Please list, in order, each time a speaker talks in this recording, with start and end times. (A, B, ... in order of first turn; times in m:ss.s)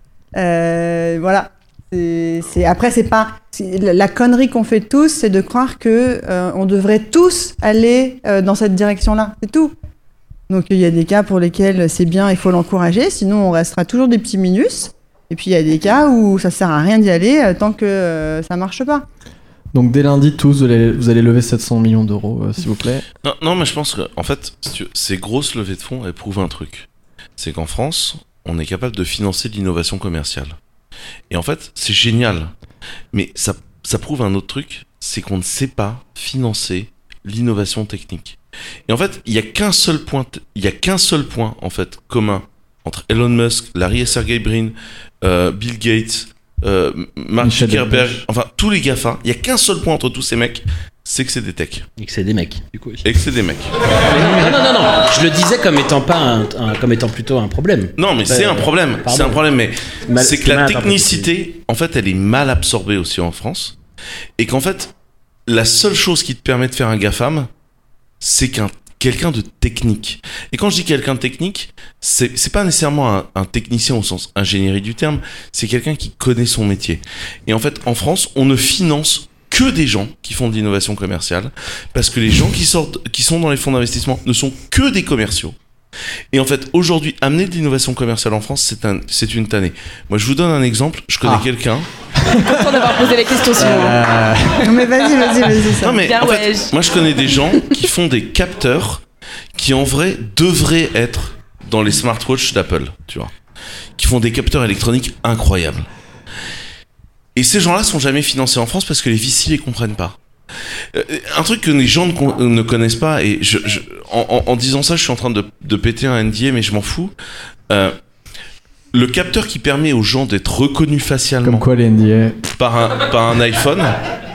0:00.4-0:09.7 A
0:10.5-0:19.1 A
0:19.7-0:23.0 B
0:23.2-0:26.9 C
0:27.4-0:30.6 C
0:31.3-0:32.5 C
0:33.1-0:38.4 C
0:38.9-0:51.9 C
0:47.4-0:48.2 B
0:52.0-0:53.0 D
0:53.0-0:53.7 C
0:54.0-0:59.4 D
0:58.0-1:03.8 C
1:00.1-1:01.3 D
1:04.4-1:04.9 C
1:05.5-1:07.5 C
1:08.2-1:25.6 C
1:26.3-1:31.9 C
1:32.2-1:33.0 B
1:32.5-1:34.0 E
1:33.6-1:34.8 B
1:34.6-1:36.0 A
1:35.8-1:39.0 C
1:36.0-1:36.7 E
1:39.6-1:43.3 C
1:44.0-1:45.9 C
1:47.4-1:50.2 C
1:50.9-1:57.1 C
1:57.7-1:58.0 C
1:58.9-2:01.6 C
2:01.4-2:02.4 B
2:02.6-2:04.0 C